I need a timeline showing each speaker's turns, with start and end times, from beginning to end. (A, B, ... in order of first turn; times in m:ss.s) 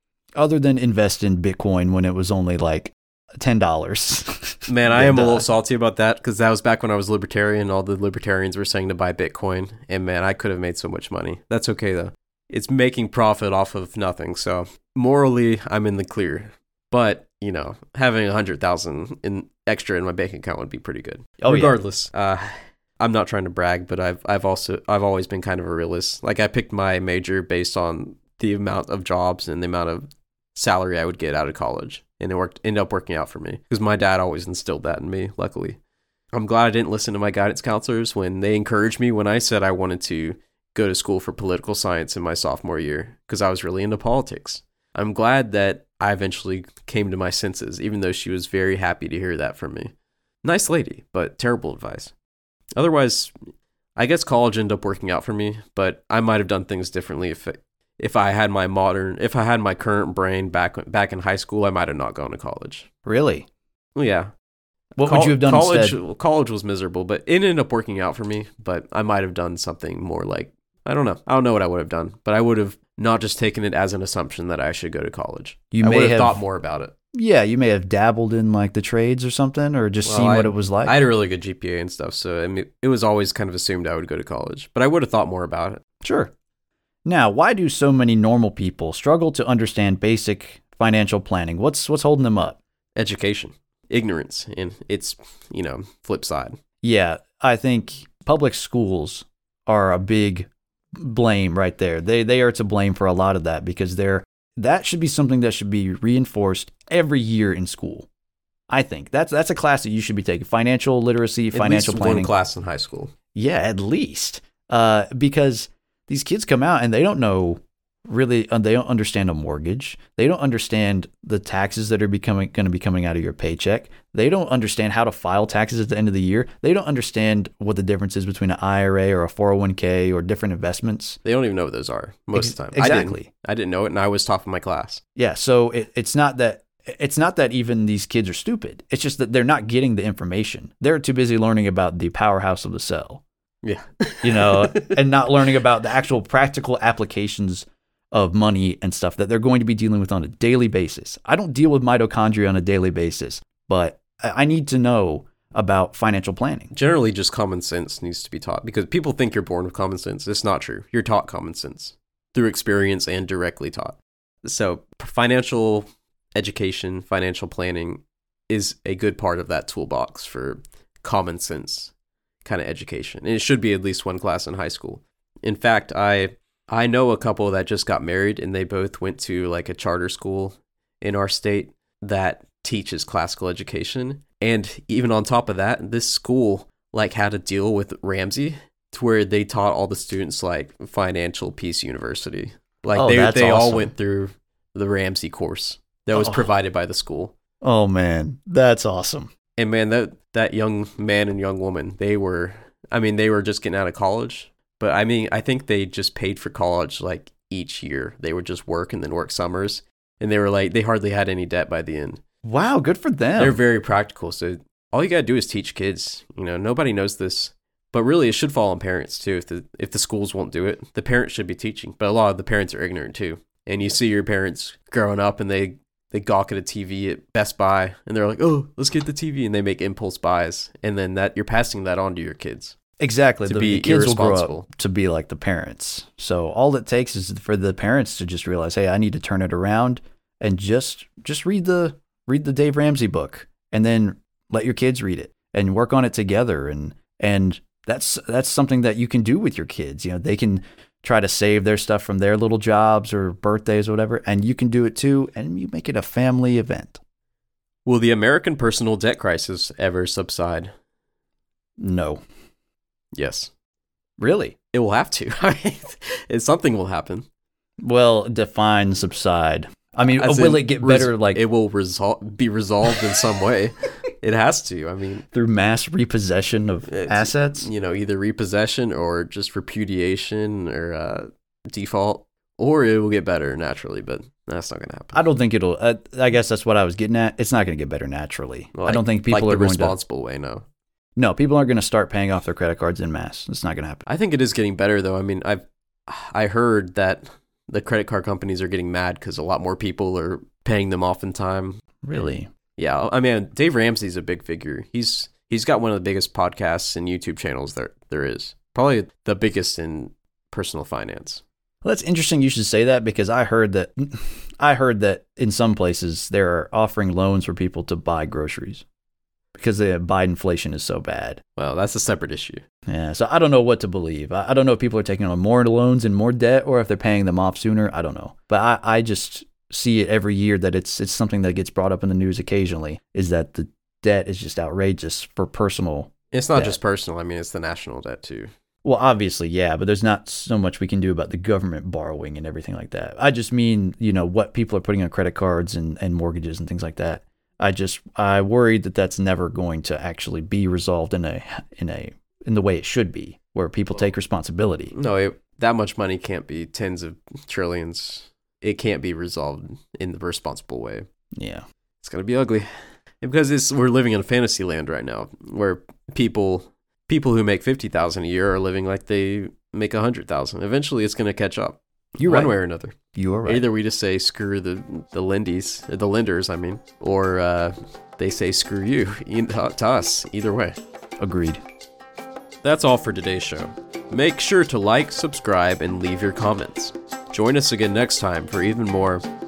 0:00.4-0:05.4 A
0:04.7-0:35.8 B
0:21.4-0:21.8 A
0:36.3-0:52.1 B
0:52.8-0:53.3 B
0:54.0-1:02.9 B
1:03.0-1:03.5 A
1:04.0-1:04.3 B
1:05.0-1:06.0 A
1:05.0-1:16.9 B
1:15.7-1:16.4 A
1:17.1-1:21.0 A
1:20.0-1:25.8 B
1:26.0-1:26.3 A
1:27.0-1:32.6 A
1:33.0-1:36.6 B
1:36.8-1:48.1 A
1:48.7-1:52.3 A
1:51.5-1:53.1 B
1:53.3-2:11.2 A
2:11.2-2:15.0 B
2:12.4-2:13.3 A
2:15.2-2:23.2 A
2:23.6-2:25.0 B
2:24.2-2:36.7 A
2:36.7-2:51.9 B
2:52.4-3:17.3 B
3:13.0-3:13.9 A
3:16.1-3:16.5 A
3:17.6-3:19.3 A
3:19.6-3:32.2 B
3:32.4-3:33.6 A
3:33.4-3:52.8 B
3:53.0-4:17.0 A
3:53.5-3:54.7 B
4:17.9-4:20.7 B
4:21.8-4:22.2 A
4:23.2-4:23.5 B
4:24.2-4:24.6 A
4:24.7-4:27.3 B
4:27.8-4:31.4 A
4:30.2-4:35.3 B
4:35.3-4:37.7 A
4:36.9-4:45.2 B
4:45.1-4:50.0 A
4:48.7-4:50.6 B
4:51.2-4:54.0 A
4:54.1-5:01.8 B
5:02.0-5:02.5 A
5:02.8-5:11.4 B
5:11.8-5:18.8 A
5:19.6-5:21.4 A
5:21.6-5:22.6 B
5:22.9-5:36.8 A
5:36.3-5:38.5 B
5:38.8-5:54.9 A
5:54.9-6:01.1 B
6:01.4-6:01.6 A
6:02.0-6:20.8 B
6:12.2-6:12.6 A
6:13.2-6:13.7 A
6:21.2-6:21.6 A
6:22.6-6:29.2 B